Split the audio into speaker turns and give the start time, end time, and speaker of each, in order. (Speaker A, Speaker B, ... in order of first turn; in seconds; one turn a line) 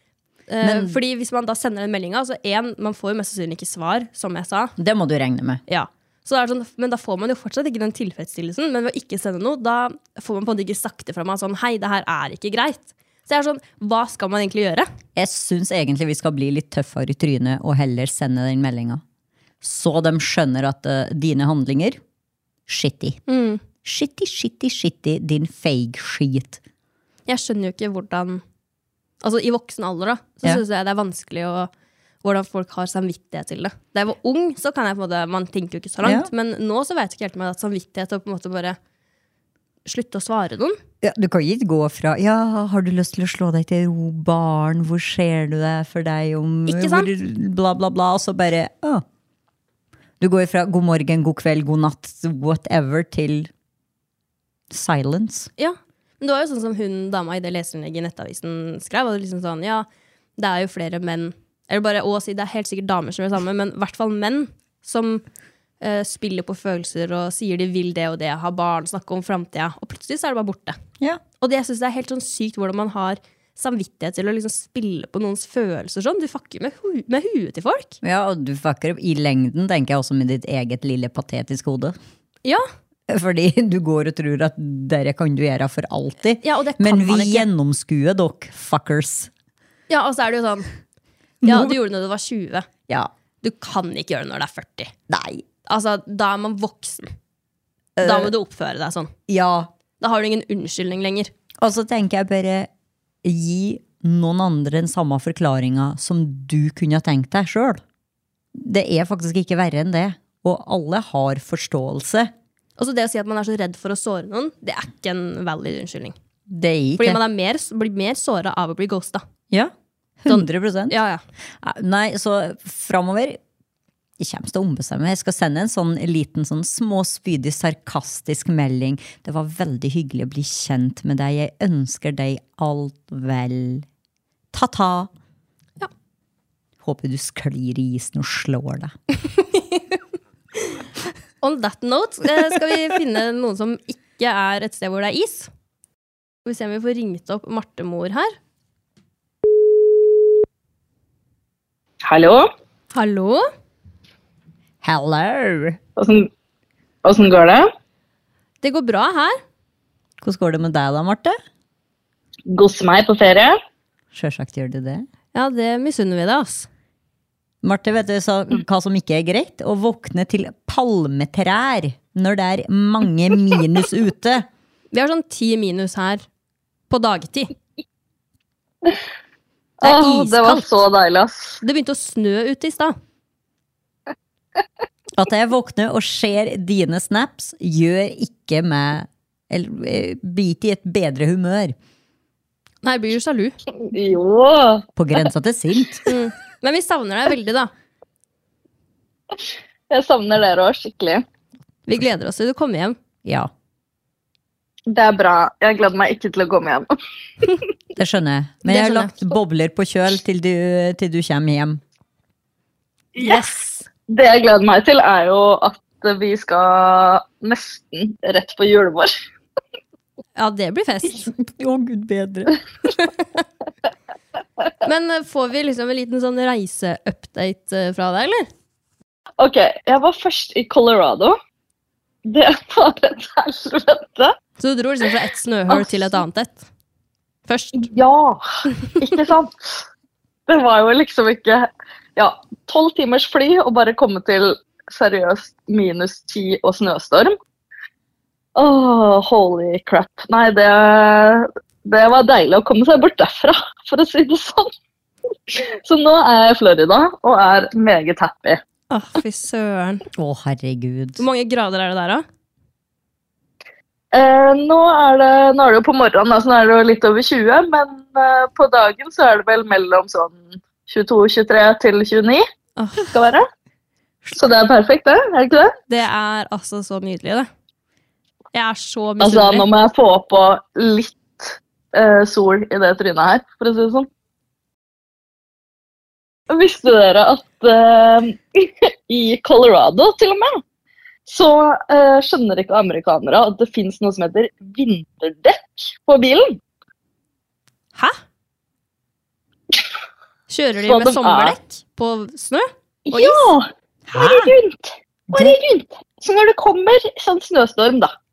Speaker A: 0.5-4.7
Speaker B: 0.6-1.0
Speaker B: 4.8-5.6
Speaker A: 5.7-14.9
Speaker B: 15.2-19.0
Speaker B: 19.6-22.0
Speaker B: 22.7-23.2
Speaker A: 23.3-23.6
Speaker B: 23.8-26.6
Speaker A: 27.3-28.4
Speaker A: 29.2-31.7
Speaker A: 32.2-38.8
Speaker B: 36.0-36.3
Speaker A: 39.9-40.8
Speaker B: 41.0-49.0
Speaker A: 46.7-47.1
Speaker B: 50.2-53.5
Speaker B: 54.7-55.5
Speaker A: 55.6-59.9
Speaker A: 60.4-65.2
Speaker A: 65.8-70.8
Speaker A: 71.4-78.0
Speaker B: 78.0-82.0
Speaker B: 83.1-89.3
Speaker A: 86.4-87.5
Speaker A: 89.9-90.7
Speaker B: 91.4-91.8
Speaker A: 91.4-92.7
Speaker A: 93.4-94.9
Speaker B: 95.1-95.4
Speaker A: 95.7-97.1
Speaker B: 98.0-98.3
Speaker A: 98.0-99.1
Speaker B: 99.3-99.7
Speaker A: 100.0-101.3
Speaker B: 101.6-102.7
Speaker B: 103.2-107.8
Speaker B: 108.5-112.3
Speaker A: 112.8-116.2
Speaker B: 116.5-117.2
Speaker A: 117.0-119.2
Speaker B: 119.5-121.0
Speaker A: 120.3-121.2
Speaker B: 121.6-123.4
Speaker B: 124.2-133.9
Speaker B: 134.5-135.1
Speaker B: 136.8-138.9
Speaker A: 139.4-139.9
Speaker A: 141.4-145.5
Speaker A: 146.4-148.3
Speaker C: 152.1-152.5
Speaker A: 152.9-153.4
Speaker B: 154.8-155.8
Speaker C: 156.0-156.3
Speaker C: 157.0-157.7
Speaker A: 158.6-159.4
Speaker B: 160.2-161.4
Speaker C: 162.5-163.6
Speaker B: 164.1-165.1
Speaker A: 165.3-166.7
Speaker B: 167.6-174.5
Speaker A: 174.9-176.2
Speaker A: 176.9-177.5
Speaker C: 179.8-181.6
Speaker B: 179.8-180.6
Speaker A: 181.6-182.9
Speaker B: 185.1-191.8
Speaker A: 192.8-193.6
Speaker C: 193.9-194.9
Speaker B: 195.0-196.1
Speaker A: 196.1-197.7
Speaker C: 199.3-201.2
Speaker A: 201.9-203.0
Speaker B: 203.2-203.5
Speaker C: 204.9-206.9
Speaker B: 208.0-211.8
Speaker A: 208.7-209.3
Speaker C: 213.2-213.4
Speaker A: 213.2-213.8
Speaker C: 214.1-219.1
Speaker A: 220.4-221.3
Speaker B: 221.4-222.6
Speaker A: 224.8-228.5
Speaker C: 229.4-231.4
Speaker C: 232.2-234.3
Speaker A: 234.6-236.7
Speaker A: 237.5-237.9
Speaker C: 237.7-238.4
Speaker C: 239.0-239.8
Speaker C: 240.5-247.4
Speaker C: 248.6-254.7
Speaker C: 255.5-258.6
Speaker A: 258.9-260.0
Speaker B: 260.1-261.2
Speaker A: 261.2-262.2
Speaker C: 264.1-272.4
Speaker A: 272.8-273.1
Speaker C: 273.0-273.5
Speaker C: 274.3-275.8
Speaker A: 275.9-277.5
Speaker A: 278.5-279.7
Speaker C: 279.2-284.1
Speaker C: 286.5-290.6
Speaker C: 291.3-296.6
Speaker A: 300.5-303.5
Speaker C: 300.8-301.6
Speaker C: 303.1-308.1
Speaker B: 304.1-304.5
Speaker B: 305.3-305.6